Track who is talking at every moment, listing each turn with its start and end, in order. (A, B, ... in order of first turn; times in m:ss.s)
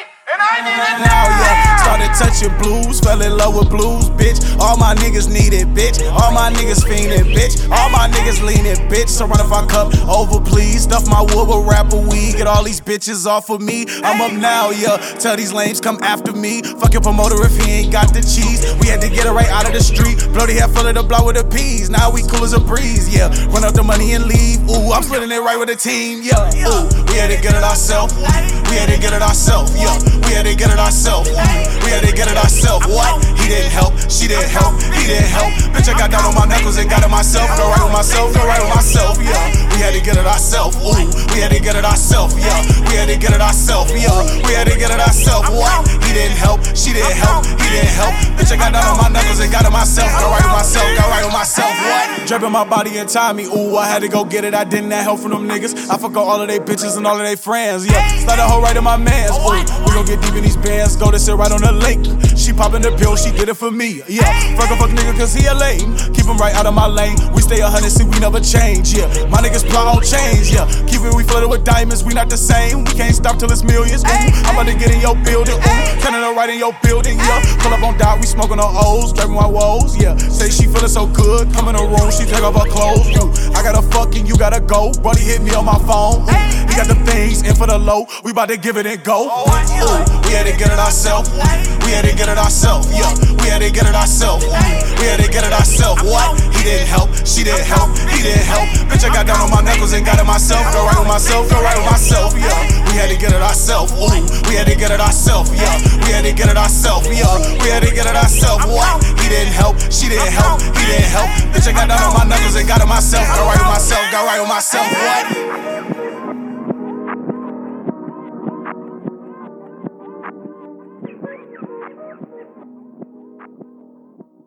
0:00.4-1:55.4 A